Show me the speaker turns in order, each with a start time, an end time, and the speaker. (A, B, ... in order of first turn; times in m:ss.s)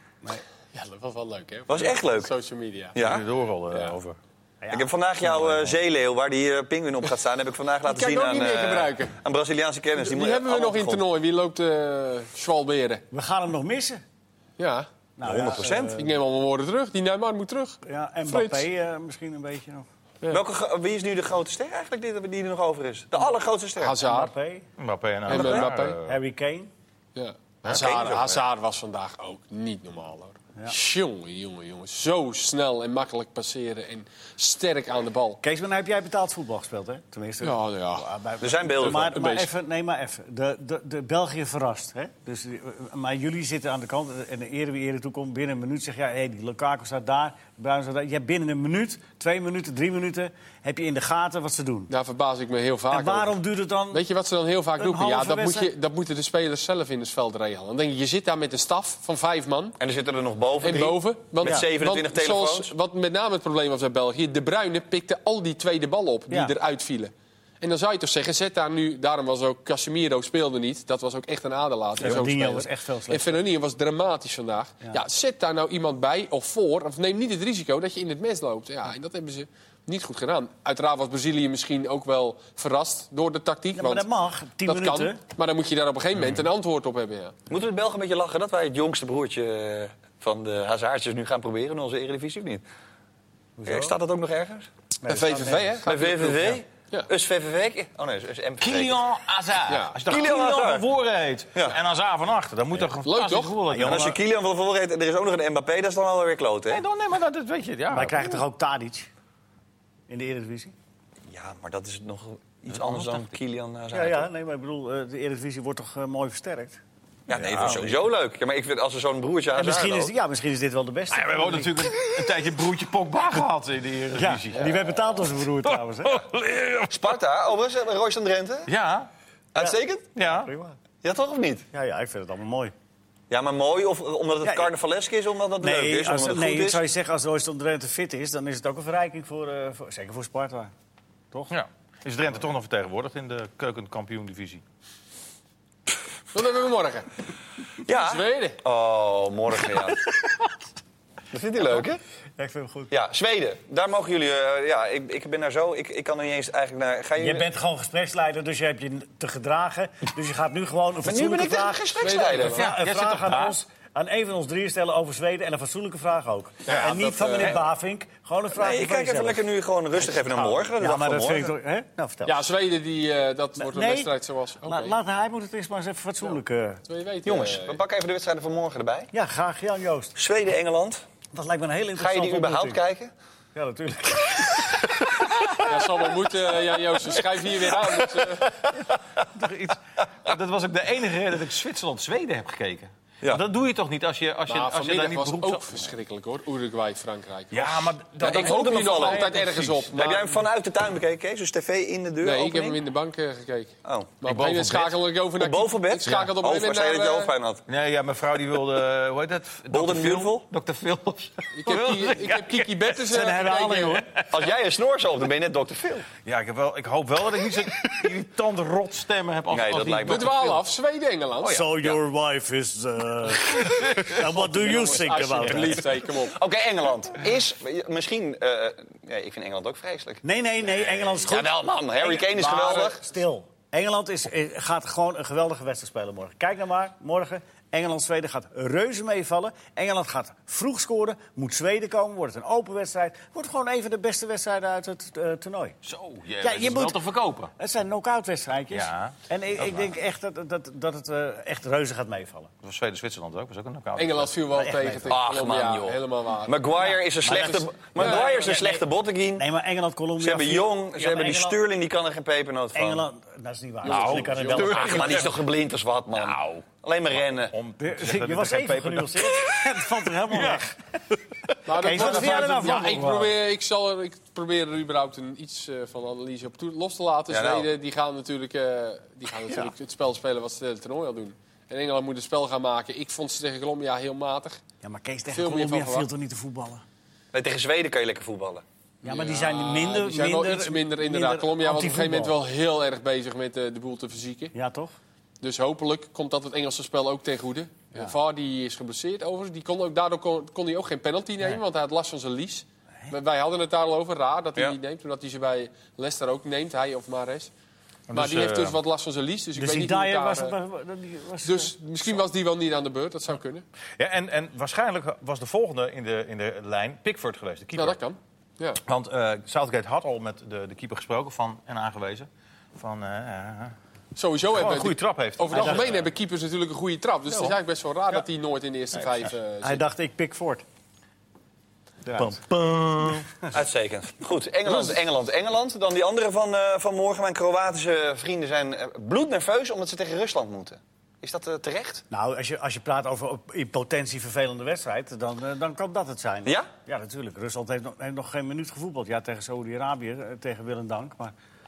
0:00.7-0:03.0 A
0:01.7-0:02.3 B
0:02.9-0:03.2 B
0:03.0-0:04.2 C
0:03.7-0:04.0 A
0:04.6-0:05.8 D
0:04.7-0:11.0 B
0:07.8-0:09.1 A
0:10.0-0:13.0 A
0:13.1-0:14.0 D
0:14.6-0:14.9 A
0:15.2-0:16.1 D
0:15.2-0:16.0 B
0:16.0-0:18.7 A
0:17.8-0:19.9 D
0:20.3-0:24.0 B
0:23.8-0:24.3 A
0:24.0-0:24.7 D
0:24.8-0:26.2 C
0:25.3-0:26.0 A
0:25.3-0:26.7 D
0:27.2-0:35.4 A
0:27.6-0:28.4 B
0:35.4-0:51.9 D
0:37.4-0:38.0 A
0:38.4-0:39.2 B
0:38.8-0:39.5 A
0:51.9-0:53.4 A
0:52.9-0:54.0 D
0:53.9-0:59.8 A
0:54.8-0:55.7 D
0:59.8-1:02.7 B
1:00.6-1:24.1 A
1:06.3-1:06.5 D
1:12.0-1:13.4 D
1:23.7-1:25.2 D
1:24.6-1:27.3 A
1:27.5-1:32.6 B
1:33.6-1:34.0 D
1:33.6-1:34.7 B
1:35.0-1:35.8 D
1:35.1-1:37.1 A
1:35.8-1:39.0 B
1:38.6-1:44.2 C
1:39.7-1:40.0 A
1:40.0-1:40.8 B
1:43.0-1:43.6 A
1:43.7-1:44.2 D
1:43.8-1:46.8 B
1:46.7-1:48.4 C
1:47.9-1:49.1 D
1:50.1-1:50.7 D
1:51.3-1:54.3 B
1:52.7-1:53.3 C
1:53.9-1:56.8 D
1:57.3-2:00.1 B
1:57.3-1:57.9 C
1:57.4-1:58.0 D
1:59.5-2:02.0 D
2:01.1-2:07.2 C
2:04.1-2:06.2 D
2:06.9-2:08.7 B
2:08.7-2:09.1 C
2:09.5-2:10.1 B
2:09.6-2:10.8 D
2:10.1-2:10.5 C
2:11.0-2:11.6 B
2:11.7-2:12.7 D
2:13.3-2:16.8 B
2:14.4-2:14.7 D
2:15.6-2:20.7 D
2:21.5-2:24.6 C
2:26.3-2:27.1 A
2:27.8-2:30.0 B
2:27.9-2:28.6 A
2:31.3-2:32.0 B
2:32.4-2:32.9 D
2:32.9-2:37.4 B
2:37.2-2:49.4 D
2:41.0-2:42.6 B
2:42.0-2:42.6 A
2:42.5-2:43.6 C
2:46.6-2:47.6 A
2:48.5-2:51.5 B
2:50.4-2:52.5 D
2:52.2-2:55.0 A
2:53.6-2:56.8 D
2:56.9-2:57.8 A
2:57.2-2:59.1 B
2:59.1-3:00.2 D
3:00.2-3:01.0 B
3:01.3-3:02.8 D
3:02.0-3:03.1 B
3:03.5-3:05.2 D
3:05.6-3:08.5 A
3:09.3-3:15.8 C
3:14.5-3:20.4 A
3:17.5-3:19.9 C
3:18.2-3:19.3 B
3:19.9-3:22.8 B
3:22.2-3:27.3 A
3:23.8-3:24.1 B
3:24.2-3:25.0 C
3:25.3-3:27.6 B
3:27.7-3:33.0 C
3:29.7-3:30.4 B
3:31.5-3:34.0 A
3:33.0-3:34.1 D
3:34.3-3:36.1 B
3:36.2-3:40.6 C
3:39.5-3:40.4 B
3:40.0-3:41.7 A
3:41.4-3:45.9 D
3:41.4-3:42.0 C
3:43.5-3:44.3 C
3:44.3-3:46.4 A
3:46.2-3:50.2 B
3:50.2-4:05.8 D
3:51.2-3:53.0 B
3:52.4-3:52.7 A
4:05.8-4:07.5 C
4:06.4-4:12.5 D
4:08.7-4:09.9 C
4:12.6-4:14.3 C
4:14.0-4:18.4 A
4:14.5-4:15.2 D
4:15.1-4:19.5 B
4:16.8-4:21.6 D
4:20.2-4:23.0 B
4:22.7-4:25.2 D
4:23.8-4:25.2 A
4:23.8-4:25.4 C
4:24.7-4:27.5 B
4:26.1-4:30.6 C
4:27.8-4:33.4 D
4:31.6-4:44.6 A
4:37.3-4:37.7 B
4:44.8-4:46.8 D
4:45.3-4:46.1 A
4:47.3-4:48.6 B
4:49.0-4:54.5 A
4:49.0-4:52.4 D
4:54.5-4:55.0 D
4:55.4-5:07.5 A
5:08.1-5:08.8 C
5:08.1-5:10.6 A
5:09.6-5:11.7 D
5:11.4-5:13.6 A
5:14.0-5:18.0 C
5:17.7-5:18.8 A
5:18.8-5:23.7 C
5:24.1-5:29.8 A
5:24.5-5:26.1 C
5:25.5-5:25.9 D
5:29.6-5:30.6 D
5:32.0-5:32.4 D
5:32.2-5:33.4 C
5:33.5-5:42.0 B
5:42.1-5:51.3 D
5:46.4-5:46.7 B